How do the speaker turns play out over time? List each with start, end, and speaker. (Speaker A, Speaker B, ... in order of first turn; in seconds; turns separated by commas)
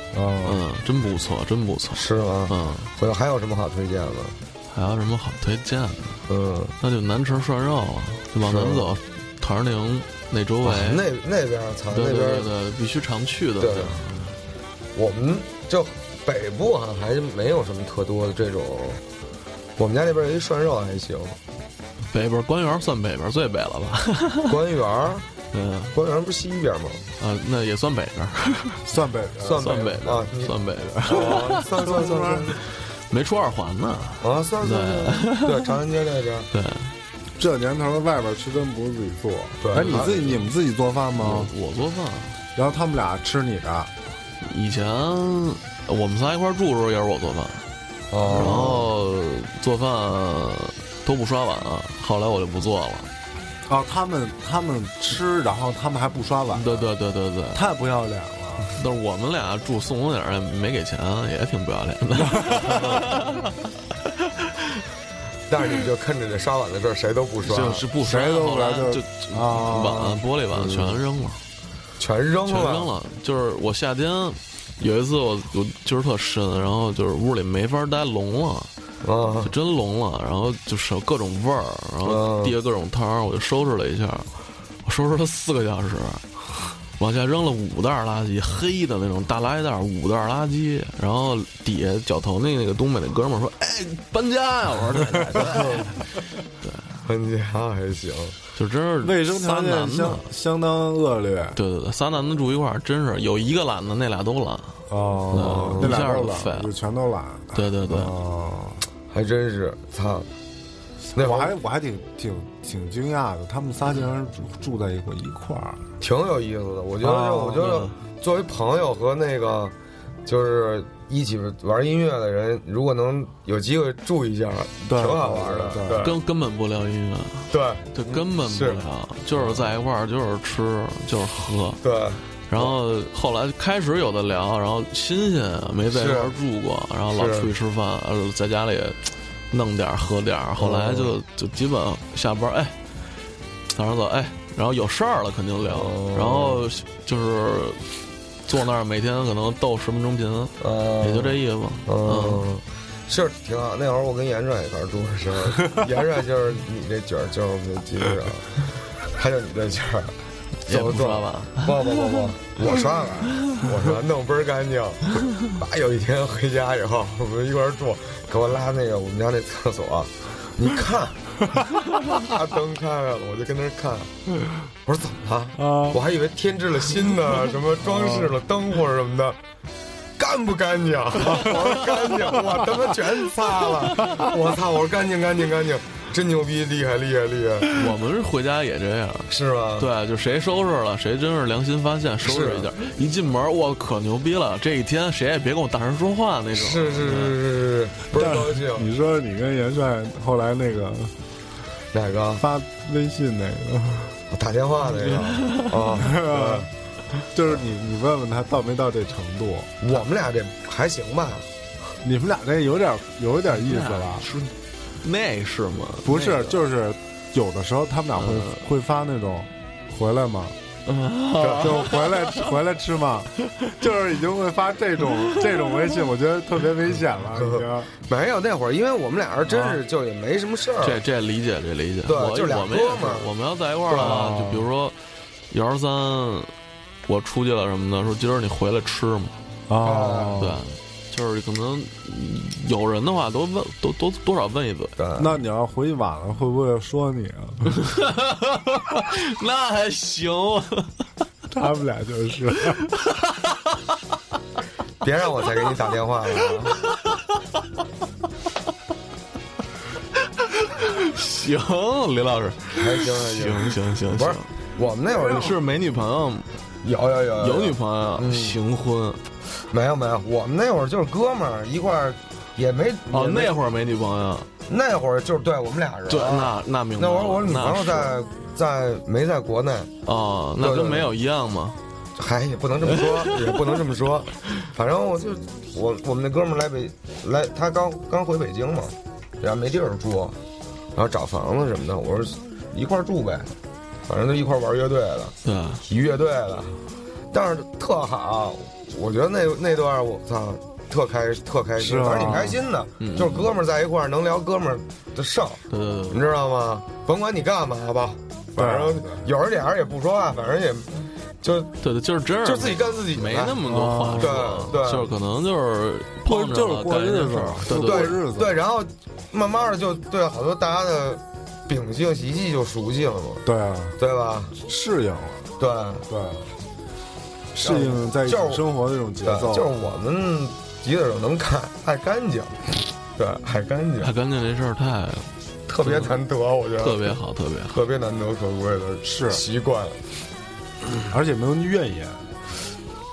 Speaker A: 0.1-0.6, Speaker B: 0.4-2.9, Speaker C: 1.9-4.4, Speaker B: 4.7-6.2, Speaker C: 6.3-6.7, Speaker B: 6.8-11.0, Speaker C: 8.4-8.9, Speaker C: 10.6-12.5, Speaker B: 11.9-14.3, Speaker C: 13.6-14.0, Speaker C: 14.9-19.0, Speaker C: 19.8-21.4, Speaker B: 22.1-24.5, Speaker C: 24.5-25.3, Speaker B: 25.5-25.9, Speaker C: 25.9-27.0, Speaker B: 27.2-28.8, Speaker A: 28.9-29.9, Speaker C: 29.4-32.6, Speaker B: 29.6-31.7, Speaker A: 31.1-32.6, Speaker B: 32.9-35.5, Speaker C: 34.2-36.5, Speaker B: 36.5-36.9, Speaker A: 37.4-41.5, Speaker C: 39.6-40.3, Speaker B: 39.7-40.4, Speaker B: 41.1-42.4, Speaker A: 42.5-43.9, Speaker B: 44.4-47.6, Speaker C: 48.1-48.8, Speaker A: 48.3-48.8, Speaker B: 48.3-53.1, Speaker A: 53.7-56.9, Speaker B: 56.5-57.6, Speaker A: 57.5-58.7, Speaker B: 58.8-63.5, Speaker A: 62.2-63.0, Speaker C: 65.5-67.8, Speaker B: 67.4-71.4, Speaker A: 68.0-70.8, Speaker C: 72.0-72.9, Speaker B: 72.5-78.7, Speaker C: 79.0-79.5, Speaker B: 79.4-84.3, Speaker C: 82.0-82.5, Speaker B: 84.8-86.3, Speaker B: 87.0-95.9, Speaker B: 96.6-97.0, Speaker C: 97.0-98.4, Speaker B: 98.5-100.2, Speaker A: 99.0-101.6, Speaker B: 101.5-106.7, Speaker A: 104.9-108.8, Speaker C: 105.3-105.9, Speaker B: 107.5-108.1, Speaker C: 109.1-110.3, Speaker A: 111.0-115.8, Speaker C: 111.1-111.5, Speaker C: 116.0-119.7, Speaker A: 117.0-117.8, Speaker B: 117.6-118.0, Speaker C: 120.3-126.2, Speaker A: 124.9-126.0, Speaker B: 126.0-131.8, Speaker C: 127.5-129.8, Speaker C: 131.8-132.8, Speaker B: 132.5-142.8, Speaker C: 135.9-136.3, Speaker C: 137.1-137.5, Speaker C: 140.6-141.1, Speaker B: 143.7-147.9, Speaker C: 145.6-146.6, Speaker B: 148.4-152.4, Speaker C: 150.6-160.1, Speaker B: 160.7-162.2, Speaker C: 160.7-174.1, Speaker C: 174.8-179.4, Speaker A: 175.6-176.0, Speaker A: 177.8-178.3, Speaker C: 180.2-187.8, Speaker A: 181.2-182.7, Speaker B: 187.7-197.4, Speaker C: 189.3-189.9, Speaker C: 192.2-192.7, Speaker C: 196.5-198.9, Speaker A: 198.1-201.2, Speaker C: 201.9-202.4, Speaker A: 202.4-204.2, Speaker C: 204.3-206.7, Speaker B: 205.4-205.7, Speaker A: 205.9-206.7, Speaker A: 207.3-209.7, Speaker C: 209.8-211.5, Speaker A: 212.0-214.3, Speaker B: 214.2-214.5, Speaker B: 215.0-216.6, Speaker A: 216.0-220.6, Speaker B: 218.1-218.6, Speaker B: 220.9-222.4, Speaker C: 221.4-221.7, Speaker A: 221.5-227.9, Speaker C: 227.4-231.0, Speaker A: 229.4-229.8, Speaker B: 230.8-235.0, Speaker C: 232.1-233.3, Speaker C: 233.9-234.4, Speaker A: 234.1-234.6, Speaker B: 235.5-236.5, Speaker B: 237.1-239.4, Speaker A: 239.7-240.6, Speaker C: 239.8-240.4, Speaker B: 240.4-244.9, Speaker C: 245.0-245.3, Speaker A: 245.2-247.7, Speaker B: 247.7-250.9, Speaker A: 251.5-252.8, Speaker C: 255.0-256.8, Speaker B: 260.6-264.5, Speaker C: 262.8-265.6, Speaker B: 265.1-266.5, Speaker C: 266.8-268.6, Speaker B: 267.4-269.2, Speaker C: 269.7-273.6, Speaker B: 273.1-274.5, Speaker C: 274.7-279.9, Speaker B: 276.1-278.1, Speaker B: 280.1-281.8, Speaker C: 280.6-281.1, Speaker C: 282.1-290.4, Speaker C: 290.9-296.8, Speaker B: 295.4-295.8, Speaker C: 297.3-311.7, Speaker A: 301.8-302.6, Speaker B: 303.0-303.5, Speaker B: 305.7-306.2, Speaker A: 308.6-309.3, Speaker B: 311.8-318.1, Speaker C: 312.4-313.6, Speaker A: 313.6-314.6, Speaker C: 314.1-315.1, Speaker A: 316.2-318.6, Speaker C: 317.7-323.4, Speaker A: 323.4-324.0, Speaker C: 324.0-324.5, Speaker A: 324.6-325.5, Speaker C: 325.6-326.1, Speaker A: 326.1-326.4, Speaker A: 327.5-329.7, Speaker C: 327.6-328.6, Speaker C: 329.2-334.1, Speaker B: 334.0-335.3, Speaker C: 335.7-337.2, Speaker B: 335.8-336.1, Speaker B: 336.8-337.8, Speaker C: 337.7-340.0, Speaker A: 339.0-339.4, Speaker A: 341.1-342.3